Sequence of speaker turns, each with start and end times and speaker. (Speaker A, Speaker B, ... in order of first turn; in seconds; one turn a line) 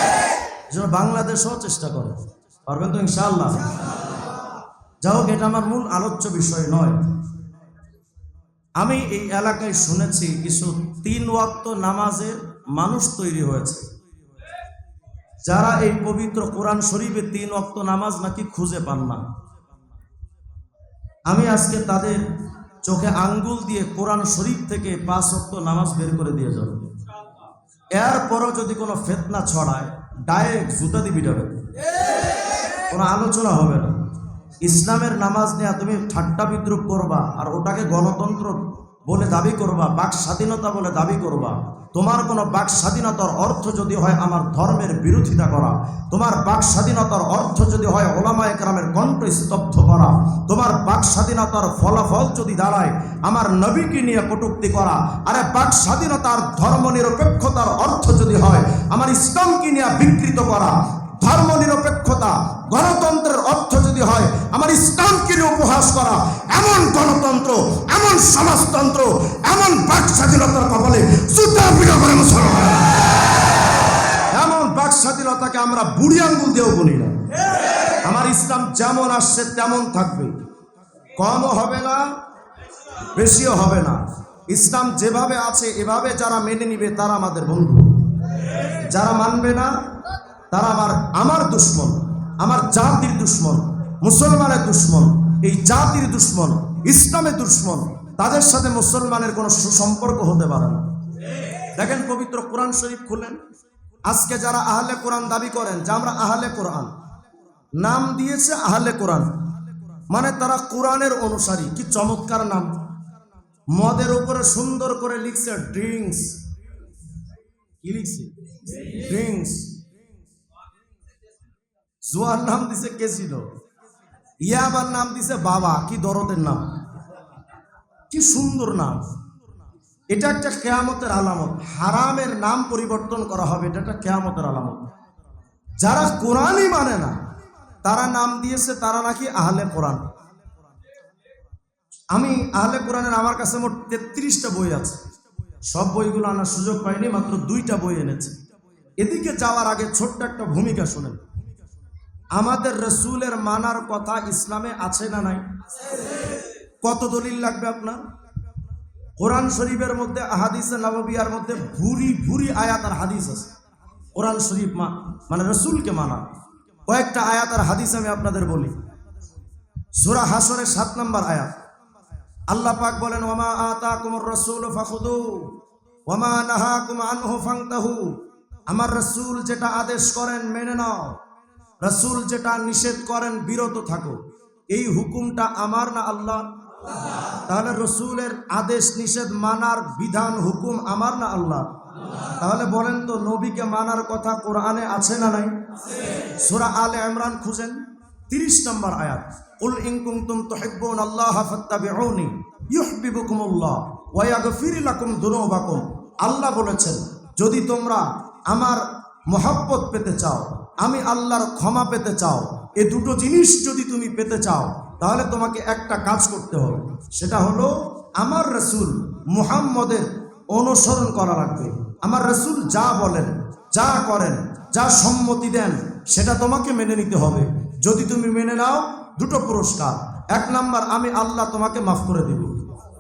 Speaker A: 0.7-3.7
Speaker A: 5.0-7.0
Speaker A: 8.8-13.9
Speaker A: 15.5-19.2
Speaker A: 21.3-22.2
Speaker A: 22.8-26.9
Speaker A: 28.0-31.6
Speaker A: 32.8-34.0
Speaker A: 34.6-73.1
Speaker A: 74.3-77.3
Speaker A: 78.0-80.3
Speaker A: 81.2-82.1
Speaker A: 83.2-89.8
Speaker A: 90.5-100.9
Speaker A: 101.8-103.4
Speaker A: 104.1-106.9
Speaker A: 107.8-109.3
Speaker A: 110.1-112.8
Speaker A: 113.7-116.4
Speaker A: 117.8-119.8
Speaker A: 122.1-123.5
Speaker A: 124.4-126.7
Speaker A: 128.1-129.0
Speaker A: 130.1-134.9
Speaker A: 135.8-137.2
Speaker A: 137.8-140.1
Speaker A: 142.1-145.0
Speaker A: 145.7-148.4
Speaker A: 149.0-151.2
Speaker A: 152.3-155.4
Speaker A: 156.8-158.0
Speaker A: 159.2-163.5
Speaker A: 164.2-166.2
Speaker A: 166.9-168.7
Speaker A: 170.0-171.5
Speaker A: 172.5-175.6
Speaker A: 176.1-181.2
Speaker A: 181.8-184.2
Speaker A: 184.7-186.5
Speaker A: 187.5-191.7
Speaker A: 192.4-195.5
Speaker A: 196.4-232.7